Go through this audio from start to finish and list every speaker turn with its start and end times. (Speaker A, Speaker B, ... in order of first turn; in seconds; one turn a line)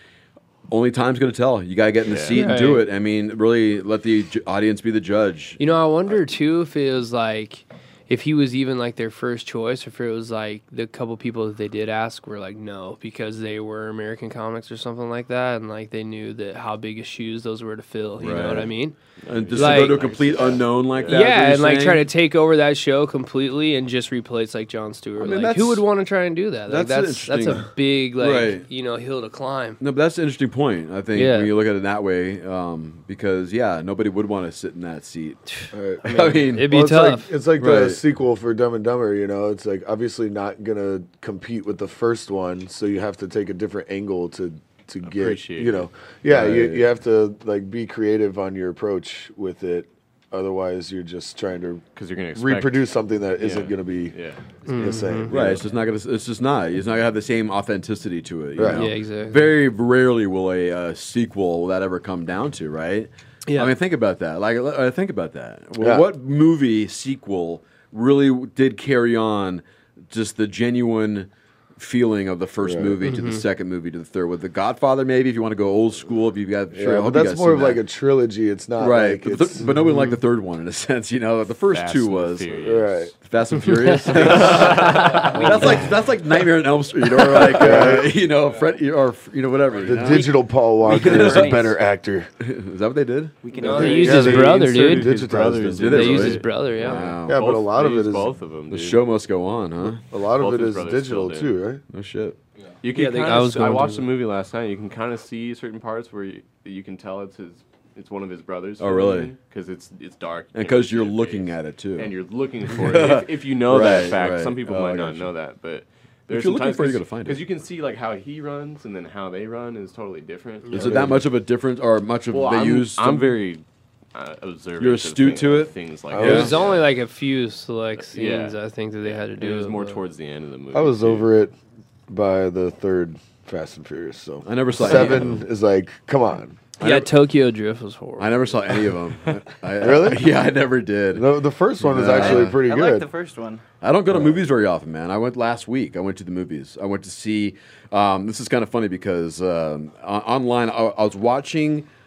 Speaker A: 0.7-5.6
Speaker B: 2.0-2.4
Speaker C: 2.3-2.9
Speaker C: 5.6-19.0
Speaker A: 18.2-18.7
Speaker B: 19.2-21.2
Speaker A: 19.3-22.0
Speaker C: 19.5-20.0
Speaker D: 20.0-20.5
Speaker C: 21.1-29.8
Speaker A: 25.2-25.9
Speaker A: 26.7-28.6
Speaker A: 29.8-35.4
Speaker C: 31.1-31.5
Speaker C: 35.5-37.3
Speaker E: 35.7-54.2
Speaker A: 36.0-36.7
Speaker A: 37.6-38.0
Speaker B: 45.0-45.9
Speaker A: 46.3-46.9
Speaker B: 51.9-54.4
Speaker D: 54.7-54.9
Speaker C: 54.7-55.3
Speaker E: 54.7-55.6
Speaker A: 55.3-77.8
Speaker E: 58.5-58.9
Speaker C: 58.7-59.5
Speaker C: 63.5-63.8
Speaker E: 65.8-66.0
Speaker E: 72.6-73.0
Speaker C: 73.0-73.4
Speaker E: 76.7-79.7
Speaker A: 78.8-82.5
Speaker C: 79.8-80.2
Speaker B: 81.7-83.0
Speaker E: 82.5-83.1
Speaker A: 83.2-90.3
Speaker B: 84.1-85.7
Speaker E: 84.2-84.6
Speaker C: 84.9-85.8
Speaker E: 85.3-85.8
Speaker E: 87.3-88.1
Speaker E: 89.8-92.3
Speaker D: 90.0-91.8
Speaker A: 90.8-91.6
Speaker A: 92.4-93.3
Speaker D: 93.4-94.3
Speaker E: 93.6-96.1
Speaker C: 93.6-95.2
Speaker B: 93.7-99.0
Speaker A: 95.7-97.4
Speaker C: 95.9-97.0
Speaker E: 97.0-98.3
Speaker A: 98.7-100.0
Speaker E: 100.0-101.8
Speaker B: 100.3-101.5
Speaker A: 101.9-102.4
Speaker B: 102.8-121.0
Speaker C: 102.9-104.1
Speaker A: 108.8-109.3
Speaker A: 110.5-112.1
Speaker A: 112.7-115.3
Speaker A: 116.3-117.4
Speaker C: 120.7-121.0
Speaker E: 120.7-121.3
Speaker A: 120.7-123.3
Speaker B: 122.3-126.9
Speaker A: 124.8-126.5
Speaker E: 126.1-126.6
Speaker C: 126.2-130.0
Speaker B: 128.0-131.3
Speaker E: 130.7-131.5
Speaker E: 132.1-136.6
Speaker A: 134.4-135.4
Speaker C: 136.8-138.9
Speaker A: 136.8-137.1
Speaker A: 138.2-141.3
Speaker E: 139.8-140.3
Speaker E: 141.1-143.1
Speaker A: 141.8-142.6
Speaker D: 142.1-143.6
Speaker A: 143.8-151.9